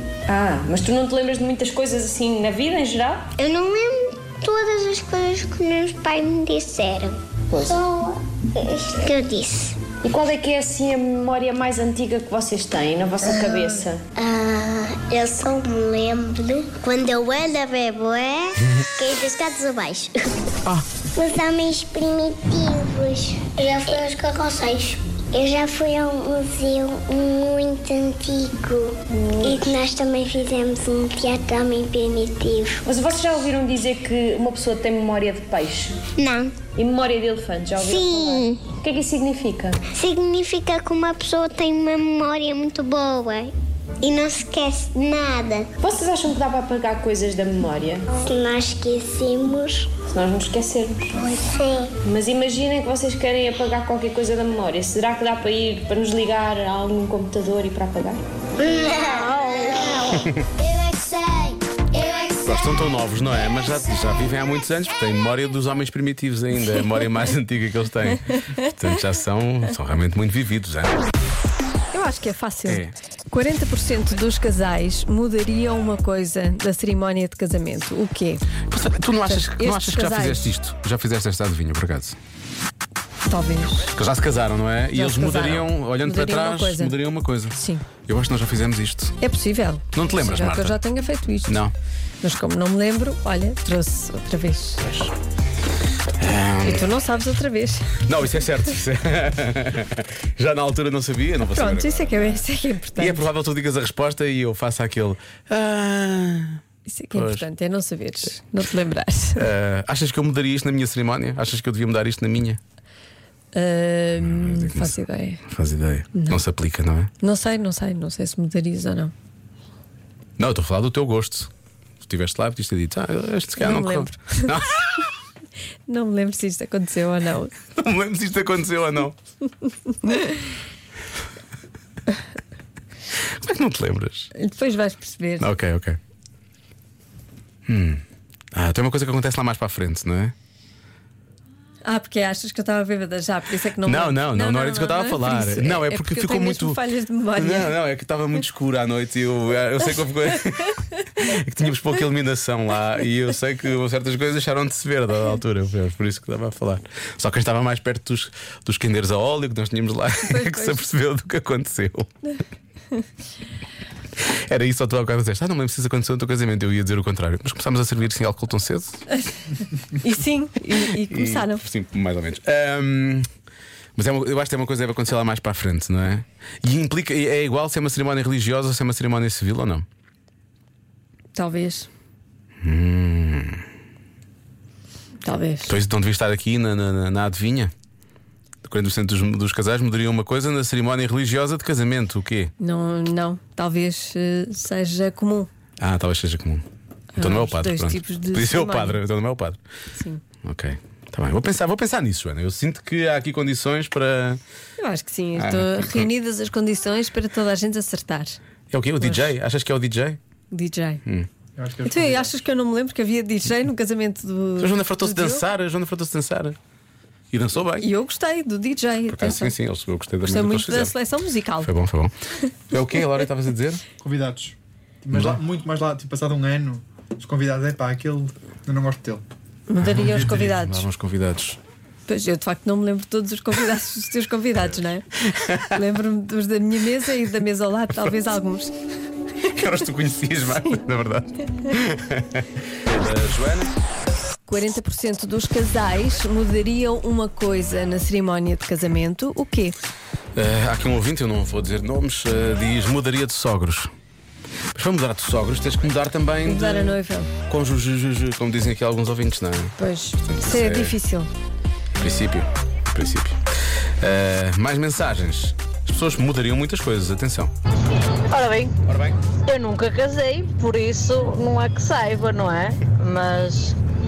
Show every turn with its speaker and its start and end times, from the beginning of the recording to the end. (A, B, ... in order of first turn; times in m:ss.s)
0:00.3-0:03.3 A
0:03.4-0:09.8 B
0:10.0-0:14.0 A
0:14.2-0:20.2 B
0:20.7-0:21.0 C
0:21.0-0:32.8 B
0:32.9-0:36.0 A
0:36.2-0:36.6 B
0:36.7-0:39.8 A
0:37.8-0:38.7 B
0:39.9-0:45.7 B
0:45.8-0:48.0 A
0:48.1-0:50.0 B
0:50.1-0:51.1 A
0:51.2-0:52.0 B
0:52.0-0:58.2 A
0:58.6-1:00.2 B
1:00.7-1:01.5 B
1:02.4-1:11.0 C
1:11.9-1:18.5 D
1:12.7-1:12.9 C
1:18.7-1:22.2 C
1:19.2-1:20.5 D
1:23.2-1:23.9 D
1:23.9-1:27.6 C
1:24.9-1:27.0 D
1:27.5-1:27.9 D
1:28.1-1:29.2 C
1:29.2-1:31.6 D
1:29.9-1:30.8 C
1:31.5-1:31.7 C
1:32.2-1:34.9 D
1:36.2-1:36.9 C
1:36.6-1:37.9 D
1:38.1-1:42.4 C
1:41.4-1:43.3 D
1:43.0-1:46.6 C
1:46.9-1:49.4 D
1:47.1-1:47.5 C
1:49.4-1:52.6 C
1:53.5-1:55.4 D
1:54.2-1:57.1 C
1:56.1-1:56.4 D
1:57.2-1:59.1 D
2:00.4-2:01.5 C
2:02.0-2:05.1 C
2:03.6-2:04.6 D
2:05.9-2:07.5 D
2:07.8-2:09.2 C
2:10.0-2:10.3 D
2:13.4-2:14.3 C
2:14.4-2:15.5 D
2:15.4-2:16.0 C
2:17.7-2:18.0 C
2:18.5-2:20.3 C
2:21.8-2:27.8 D
2:23.8-2:26.8 C
2:27.4-2:42.1 C
2:40.2-2:40.8 D
2:44.2-2:49.0 C
2:50.0-2:51.6 D
2:51.1-2:53.3 C
2:54.0-2:59.8 C
3:01.4-3:01.9 D
3:02.6-3:03.6 C
3:05.2-3:05.7 D
3:05.7-3:07.7 C
3:08.6-3:12.5 C
3:12.6-3:15.5 D
3:15.8-3:16.6 C
3:17.2-3:19.0 D
3:17.2-3:19.6 C
3:20.0-3:20.2 D
3:20.4-3:24.4 C
3:24.8-3:28.4 D
3:25.4-3:26.1 C
3:28.7-3:30.2 C
3:29.0-3:29.3 D
3:30.5-3:31.0 D
3:31.6-3:32.3 E
3:31.9-3:35.4 D
3:34.6-3:36.6 C
3:37.3-3:37.9 C
3:37.8-3:39.6 D
3:39.1-3:40.9 C
3:40.2-3:41.7 D
3:41.6-3:42.1 C
3:42.7-3:43.8 C
3:44.0-3:49.2 E
3:45.1-3:45.4 C
3:49.7-3:50.8 D
3:49.8-3:51.6 C
3:52.1-3:58.7 D
3:59.5-4:03.7 C
4:04.5-4:09.8 D
4:10.4-4:13.9 C
4:14.8-4:21.0 C
4:16.4-4:17.3 D
4:19.8-4:21.3 D
4:22.0-4:23.4 C
4:24.0-4:27.5 C
4:28.3-4:28.7 F
4:28.8-4:29.2 C
4:29.5-4:33.8 F